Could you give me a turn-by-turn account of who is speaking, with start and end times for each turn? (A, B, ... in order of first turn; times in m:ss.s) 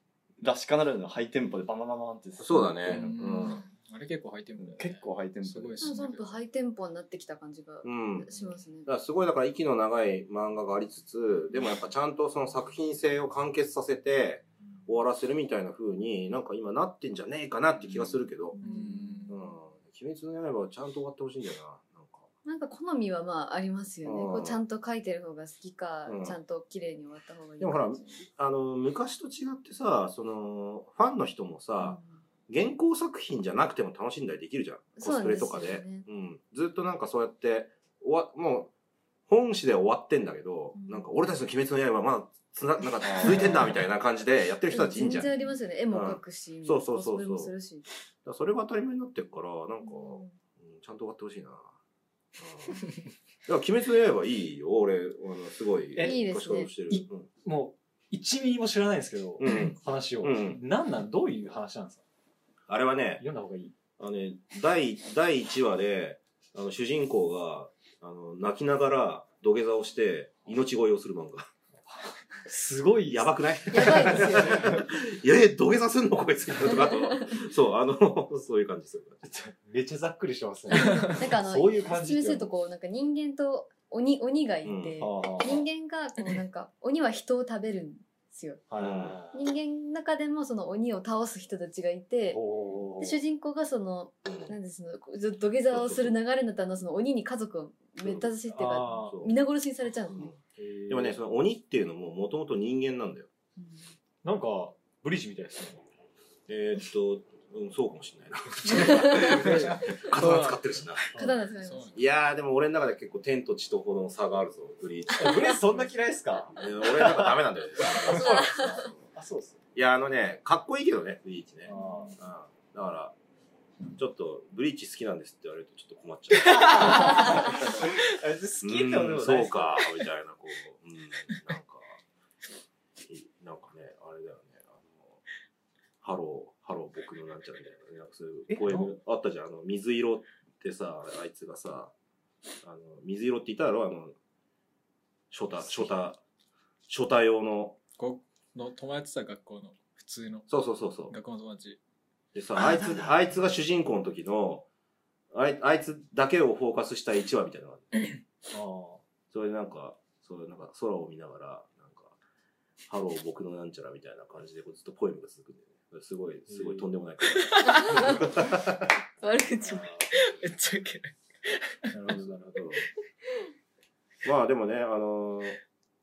0:00.4-0:03.2 A
0:02.4-0:03.6 B
0:02.9-0:06.3 C
0:04.6-0:05.9 A
0:05.8-0:08.9 D
0:07.8-0:08.3 B
0:08.9-0:18.6 B
0:18.6-0:19.4 D
0:18.6-0:19.4 C
0:19.3-0:22.3 B
0:22.4-0:28.2 D
0:24.0-0:24.6 B
0:26.1-0:26.4 B
0:27.6-0:38.7 B
0:31.8-0:32.2 D
0:35.0-0:36.1 D
0:39.3-0:45.3 B
0:40.8-0:41.1 D
0:44.7-0:47.9 D
0:45.9-0:47.5 B
0:48.2-0:51.7 B
0:49.8-0:50.3 D
0:52.4-0:52.9 B
0:53.5-0:57.3 B
0:56.0-0:56.3 E
0:56.0-0:56.7 D
0:56.9-1:02.0 E
0:59.4-1:00.6 B
1:02.7-1:03.2 B
1:03.2-1:03.8 E
1:04.0-1:11.5 B
1:12.4-1:14.9 E
1:13.1-1:19.2 B
1:13.7-1:14.8 D
1:16.6-1:17.4 D
1:19.2-1:22.5 E
1:20.7-1:28.6 D
1:24.6-1:25.0 B
1:25.0-1:25.7 E
1:28.7-1:29.4 E
1:28.8-1:29.2 B
1:29.3-1:32.4 D
1:32.3-1:33.2 E
1:33.0-1:40.3 D
1:34.3-1:34.6 B
1:35.7-1:36.2 B
1:38.0-1:38.3 B
1:38.5-1:39.2 E
1:38.9-1:39.3 B
1:40.1-1:43.3 B
1:40.6-1:41.2 E
1:44.2-1:45.8 E
1:46.5-1:51.1 B
1:48.7-1:49.5 D
1:49.0-1:50.7 C
1:51.1-1:51.4 E
1:51.2-1:52.0 D
1:51.6-1:52.0 C
1:52.0-1:55.8 B
1:55.2-1:59.6 E
1:56.6-1:59.0 B
1:58.2-1:58.6 D
1:59.8-2:03.2 B
2:01.7-2:02.2 E
2:01.7-2:02.2 D
2:04.0-2:07.3 B
2:06.4-2:07.1 C
2:06.6-2:09.9 E
2:08.6-2:12.0 B
2:13.1-2:15.2 B
2:16.0-2:21.9 B
2:18.5-2:18.9 E
2:22.6-2:24.2 B
2:25.3-2:26.2 B
2:26.9-2:27.8 B
2:28.0-2:30.5 C
2:30.5-2:31.1 B
2:31.1-2:31.8 C
2:32.3-2:34.7 B
2:35.3-2:37.9 B
2:38.5-2:39.0 E
2:39.3-2:42.2 B
2:42.9-2:48.9 B
2:46.5-2:46.9 E
2:47.3-2:48.2 C
2:47.8-2:48.2 D
2:49.2-2:49.9 D
2:49.6-2:50.3 E
2:50.1-2:51.8 C
2:51.9-2:52.7 E
2:52.6-2:52.9 B
2:54.2-2:55.6 B